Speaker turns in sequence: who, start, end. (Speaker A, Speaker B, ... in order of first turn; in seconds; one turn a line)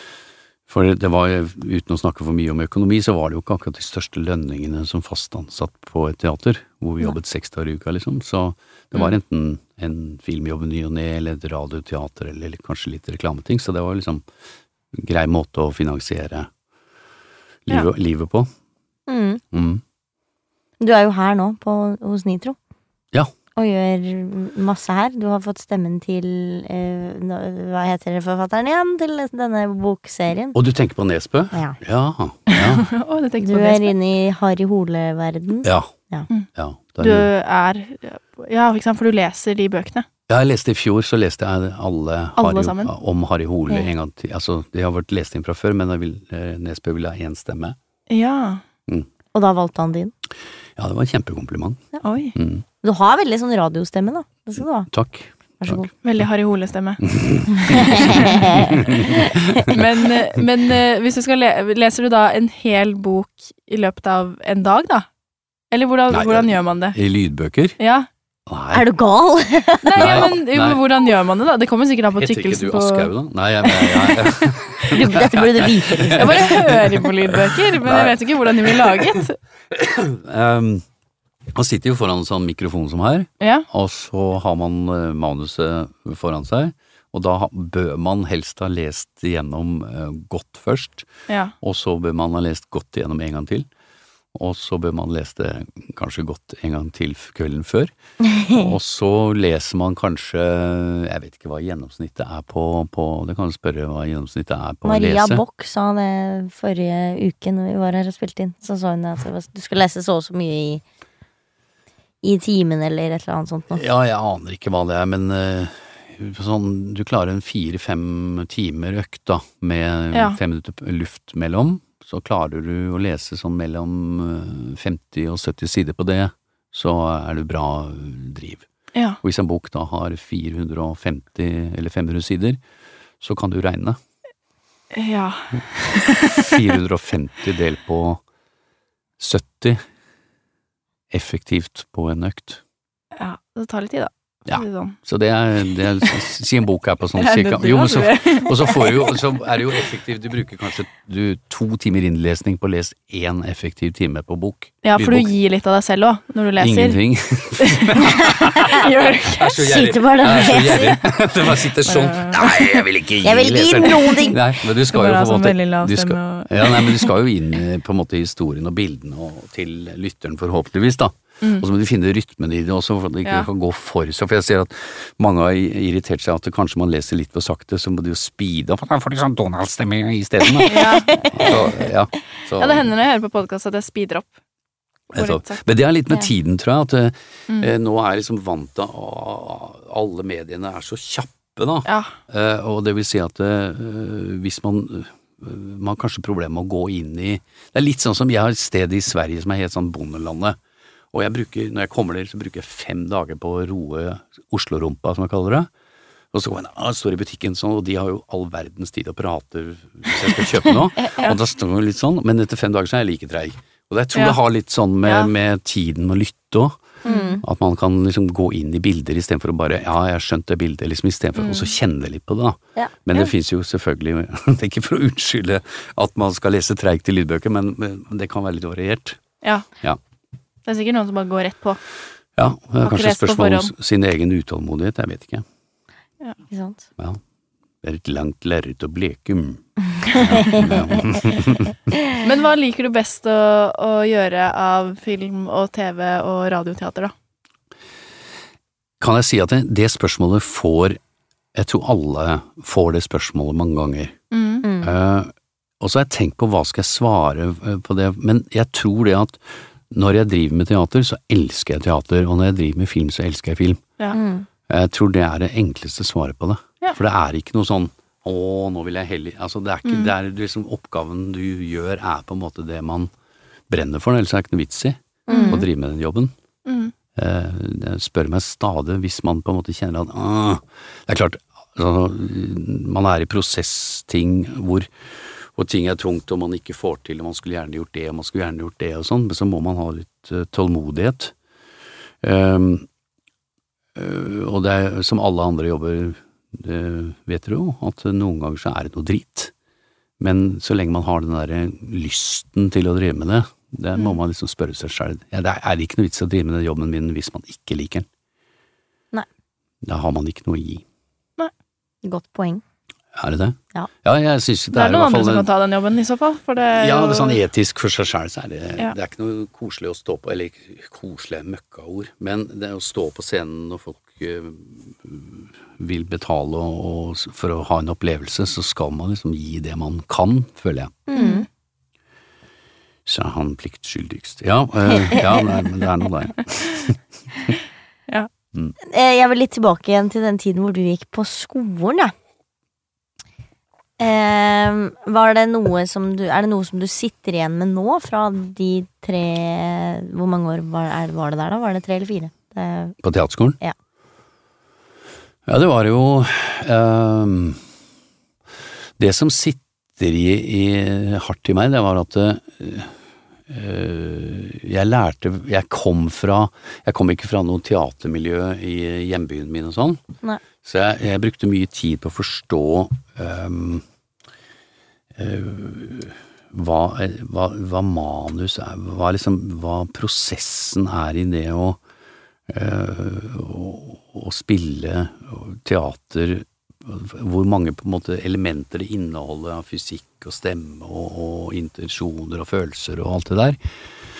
Speaker A: 0.7-14.2
Speaker A: 14.9-16.5
Speaker A: 17.6-18.5
Speaker B: 19.1-19.4
Speaker A: 19.5-19.8
Speaker B: 20.8-22.6
Speaker B: 23.6-30.6
Speaker A: 30.5-32.9
Speaker B: 31.5-31.8
Speaker C: 32.5-33.9
Speaker B: 33.4-36.3
Speaker A: 35.6-35.9
Speaker A: 36.5-37.3
Speaker C: 37.0-40.0
Speaker A: 40.3-47.8
Speaker C: 42.4-42.9
Speaker C: 48.1-48.6
Speaker B: 49.3-50.1
Speaker A: 50.8-51.8
Speaker C: 52.0-52.4
Speaker A: 52.4-52.6
Speaker B: 52.8-54.9
Speaker A: 54.9-55.9
Speaker B: 55.6-55.9
Speaker C: 56.0-57.1
Speaker A: 57.0-60.2
Speaker B: 57.5-59.6
Speaker C: 57.7-58.5
Speaker C: 59.6-65.1
Speaker C: 65.7-67.0
Speaker A: 66.1-67.8
Speaker C: 67.8-68.1
Speaker A: 68.5-68.8
Speaker B: 68.7-70.3
Speaker C: 69.9-73.1
Speaker A: 70.0-70.8
Speaker A: 72.2-79.1
Speaker B: 74.8-76.4
Speaker C: 76.2-79.4
Speaker A: 79.7-80.8
Speaker A: 81.5-91.1
Speaker C: 83.4-83.7
Speaker C: 91.3-91.5
Speaker A: 91.6-93.7
Speaker A: 94.3-97.9
Speaker B: 98.2-98.7
Speaker A: 98.5-105.4
Speaker B: 104.8-110.8
Speaker B: 112.2-113.8
Speaker A: 113.7-128.7
Speaker C: 120.1-120.4
Speaker A: 129.2-132.6
Speaker A: 133.2-134.0
Speaker C: 134.9-136.6
Speaker A: 136.3-138.2
Speaker A: 139.2-139.8
Speaker A: 141.1-142.6
Speaker C: 143.2-145.0
Speaker A: 144.5-155.3
Speaker C: 147.2-149.2
Speaker C: 154.8-157.0
Speaker A: 156.6-182.9
Speaker C: 157.6-159.6
Speaker B: 158.3-158.8
Speaker B: 159.5-161.0
Speaker C: 161.8-162.8
Speaker B: 163.2-164.4
Speaker C: 163.8-167.1
Speaker B: 180.4-181.5
Speaker C: 180.7-181.6
Speaker C: 182.6-184.3
Speaker C: 185.1-185.6
Speaker A: 185.1-200.6
Speaker C: 191.8-192.2
Speaker A: 201.1-205.7
Speaker A: 206.3-216.8
Speaker C: 215.0-215.3
Speaker B: 217.0-217.4
Speaker A: 217.4-229.2
Speaker C: 221.4-221.7
Speaker C: 229.4-229.7
Speaker C: 230.7-231.8
Speaker A: 232.4-235.4
Speaker C: 232.8-233.7
Speaker B: 236.5-236.9
Speaker A: 237.8-241.9
Speaker B: 240.2-240.7
Speaker C: 242.2-247.1
Speaker A: 249.0-251.0
Speaker A: 251.5-254.2
Speaker C: 254.3-254.7
Speaker B: 254.6-254.9
Speaker A: 254.8-263.8
Speaker B: 264.1-264.5
Speaker A: 264.7-273.1
Speaker C: 269.9-270.1
Speaker A: 273.7-276.3
Speaker B: 275.3-275.6
Speaker C: 275.3-275.6
Speaker C: 276.6-276.9
Speaker A: 277.1-291.3
Speaker A: 292.2-292.9
Speaker A: 293.9-299.5
Speaker A: 300.2-308.1
Speaker A: 309.8-310.8
Speaker B: 312.0-312.6
Speaker A: 313.1-315.5
Speaker C: 314.7-317.4
Speaker A: 316.7-331.0
Speaker B: 331.1-331.4
Speaker C: 331.1-331.4
Speaker A: 333.0-337.0
Speaker B: 338.8-342.1
Speaker B: 344.0-353.0
Speaker A: 353.0-353.6
Speaker A: 355.5-357.6
Speaker A: 359.0-362.9
Speaker A: 363.5-370.0
Speaker A: 370.6-373.8
Speaker A: 375.1-381.8
Speaker A: 382.5-393.6